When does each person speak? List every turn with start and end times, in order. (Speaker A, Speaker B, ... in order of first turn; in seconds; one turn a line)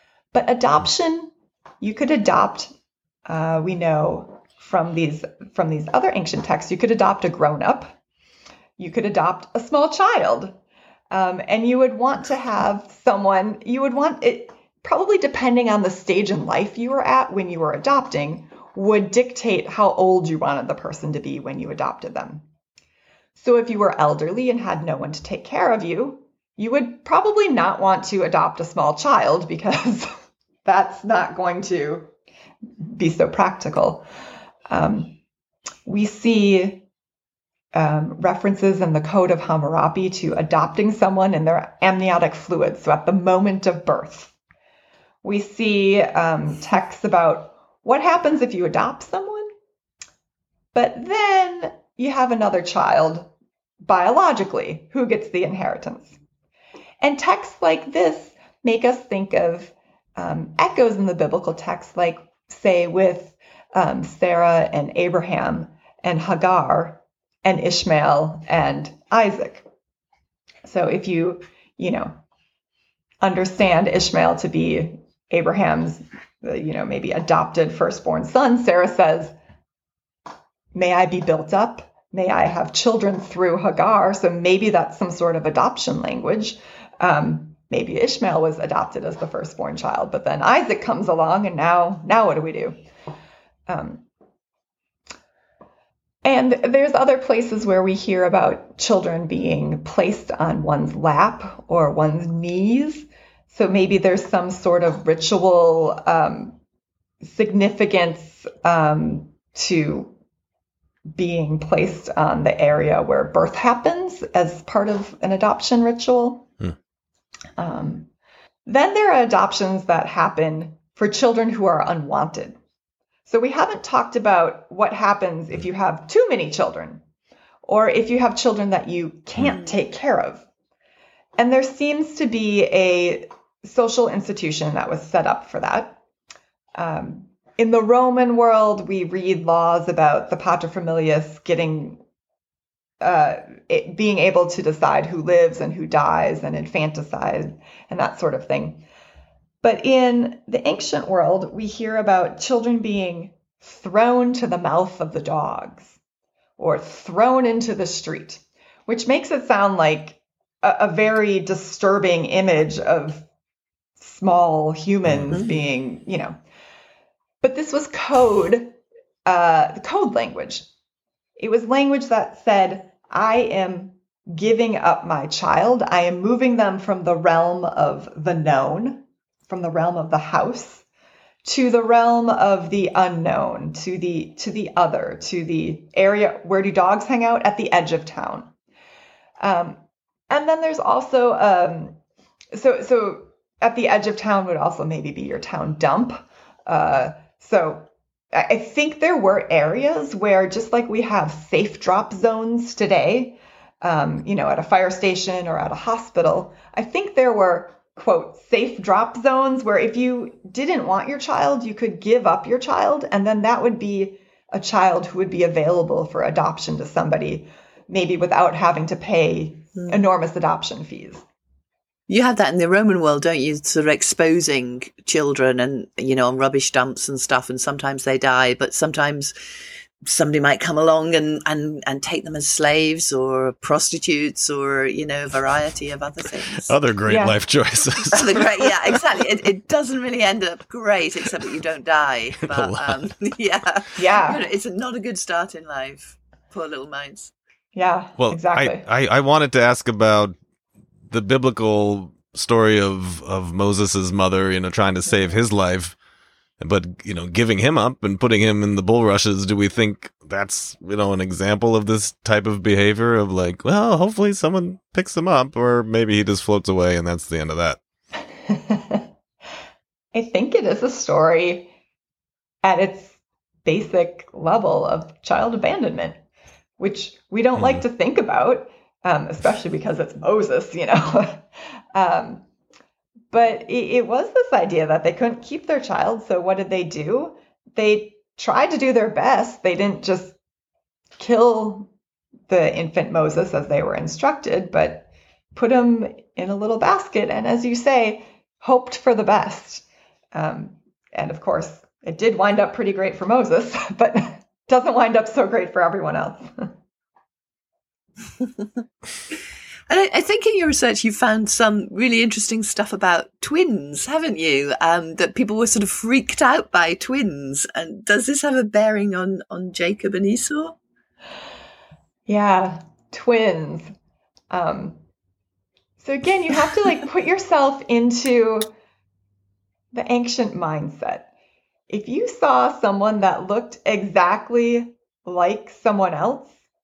Speaker A: 0.3-2.7
Speaker A: 3.3-8.0
Speaker A: 8.8-10.5
Speaker A: 11.1-22.4
Speaker A: 23.4-30.1
Speaker A: 30.6-32.1
Speaker A: 32.8-34.0
Speaker A: 34.7-35.2
Speaker A: 35.9-36.8
Speaker A: 37.7-44.3
Speaker A: 45.2-49.5
Speaker A: 50.7-53.3
Speaker A: 53.8-56.1
Speaker A: 57.0-69.7
Speaker A: 70.6-72.1
Speaker A: 73.2-79.3
Speaker A: 80.7-92.8
Speaker A: 93.7-94.0
Speaker A: 96.2-106.6
Speaker A: 107.2-110.1
Speaker A: 111.1-116.5
Speaker A: 117.6-118.1
Speaker A: 118.7-122.6
Speaker A: 123.2-127.0
Speaker A: 127.7-130.4
Speaker A: 131.4-136.0
Speaker A: 136.8-142.0
Speaker A: 143.0-148.8
Speaker A: 149.6-156.0
Speaker A: 156.6-163.2
Speaker A: 164.0-166.4
Speaker B: 165.1-165.4
Speaker A: 167.4-170.7
Speaker A: 171.4-180.8
Speaker A: 181.4-188.5
Speaker A: 189.4-189.8
Speaker A: 190.3-192.0
Speaker A: 192.5-221.2
Speaker C: 219.8-220.1
Speaker C: 222.1-229.3
Speaker C: 230.0-236.7
Speaker B: 236.6-238.9
Speaker A: 237.1-237.4
Speaker C: 238.1-247.3
Speaker B: 242.4-243.2
Speaker A: 244.0-244.4
Speaker A: 247.7-248.8
Speaker B: 248.2-250.4
Speaker B: 251.1-256.0
Speaker B: 256.6-267.8
Speaker A: 268.5-269.1
Speaker A: 270.1-271.7
Speaker A: 272.6-276.2
Speaker A: 276.8-282.4
Speaker B: 277.6-277.8
Speaker A: 283.3-290.4
Speaker A: 291.2-291.9
Speaker A: 292.5-306.7
Speaker C: 309.9-320.8
Speaker A: 322.3-323.9
Speaker A: 324.5-325.0
Speaker A: 326.0-328.7
Speaker A: 329.9-331.3
Speaker A: 331.9-336.5